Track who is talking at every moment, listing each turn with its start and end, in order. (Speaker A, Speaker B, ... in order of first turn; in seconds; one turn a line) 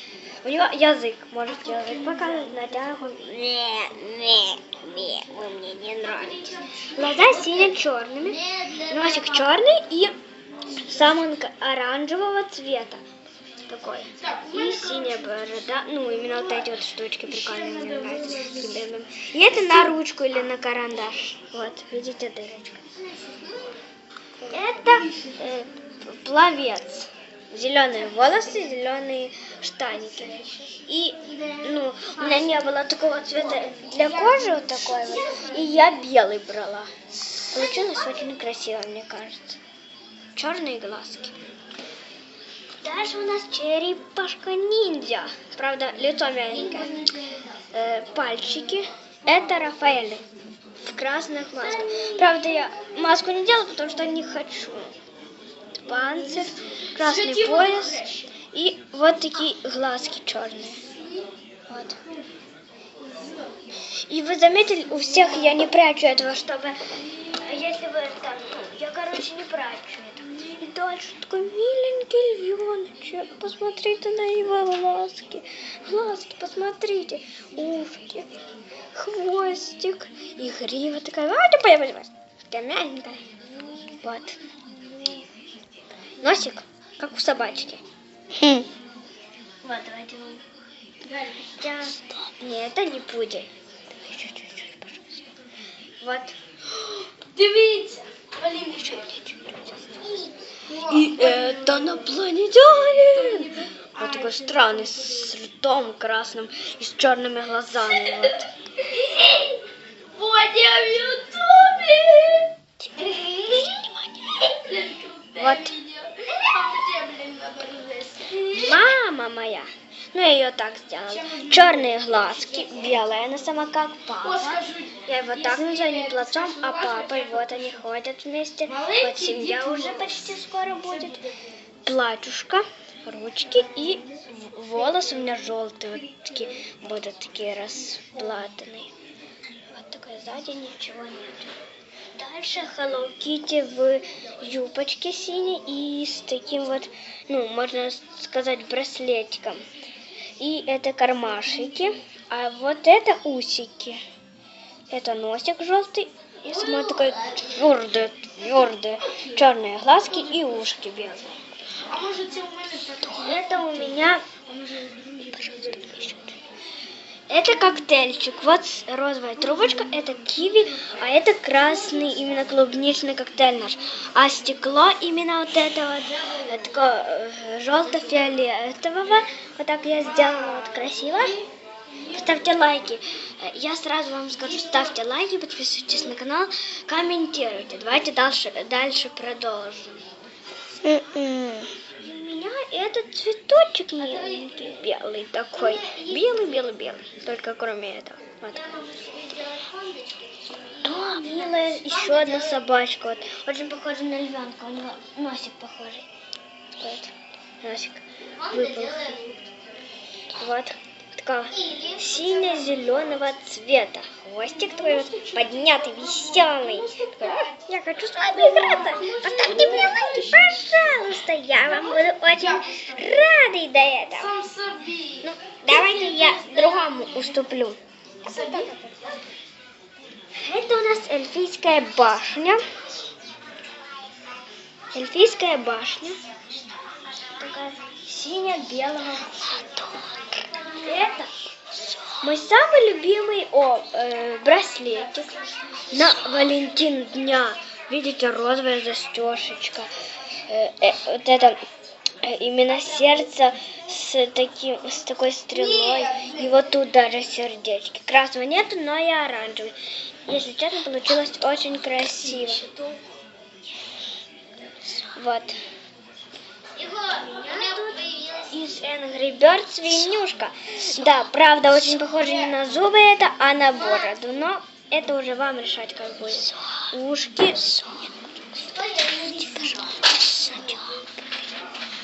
Speaker A: 0.4-10.2
Speaker B: 1.6-2.8
Speaker B: 6.0-7.8
Speaker C: 8.6-9.1
Speaker A: 10.8-13.0
Speaker A: 13.7-22.9
Speaker B: 14.2-15.4
Speaker B: 17.2-18.8
Speaker B: 23.0-23.8
Speaker B: 24.4-25.4
Speaker A: 24.5-36.9
Speaker B: 30.2-30.6
Speaker B: 31.3-32.6
Speaker B: 33.5-35.8
Speaker A: 37.5-39.6
Speaker A: 40.3-41.3
Speaker A: 42.8-47.1
Speaker B: 46.8-47.2
Speaker A: 47.7-50.2
Speaker A: 50.8-54.9
Speaker B: 51.7-52.2
Speaker A: 55.8-60.8
Speaker B: 56.9-58.3
Speaker A: 61.7-62.0
Speaker B: 63.1-63.5
Speaker A: 63.9-78.3
Speaker A: 78.9-84.4
Speaker A: 84.9-85.2
Speaker A: 86.2-87.8
Speaker C: 88.4-88.6
Speaker A: 89.6-90.4
Speaker B: 91.0-91.5
Speaker A: 91.6-93.5
Speaker A: 94.0-95.2
Speaker A: 96.0-97.0
Speaker B: 97.3-99.1
Speaker A: 98.7-108.5
Speaker B: 100.7-102.1
Speaker B: 103.0-105.3
Speaker B: 108.9-109.6
Speaker B: 110.1-112.5
Speaker A: 112.8-114.5
Speaker B: 114.5-118.9
Speaker A: 115.3-115.7
Speaker A: 118.5-131.2
Speaker B: 121.1-123.0
Speaker B: 124.2-127.8
Speaker B: 128.7-131.3
Speaker A: 131.8-138.9
Speaker A: 139.7-141.5
Speaker A: 142.1-149.6
Speaker A: 150.4-154.0
Speaker A: 154.9-161.4
Speaker B: 156.5-157.4
Speaker B: 161.9-165.6
Speaker A: 163.0-164.3
Speaker A: 165.2-166.4
Speaker A: 167.3-181.4
Speaker B: 180.1-180.7
Speaker A: 182.1-190.0
Speaker C: 190.8-191.7
Speaker A: 192.0-198.8
Speaker C: 198.5-202.6
Speaker A: 200.8-206.1
Speaker A: 206.8-209.2
Speaker C: 208.4-209.4
Speaker A: 210.4-224.3
Speaker C: 211.6-212.7
Speaker B: 214.4-221.0
Speaker B: 221.7-223.1
Speaker B: 224.1-227.3
Speaker A: 225.2-229.0
Speaker B: 228.2-228.7
Speaker A: 230.4-232.6
Speaker A: 234.9-236.2
Speaker A: 237.3-240.0
Speaker A: 240.7-241.3
Speaker A: 242.2-245.3
Speaker A: 245.9-249.9
Speaker A: 250.5-251.6
Speaker A: 252.2-259.7
Speaker B: 255.5-256.4
Speaker A: 260.3-262.6
Speaker B: 262.2-263.0
Speaker A: 265.1-265.6
Speaker C: 266.8-268.6
Speaker A: 267.0-281.0
Speaker B: 272.2-272.5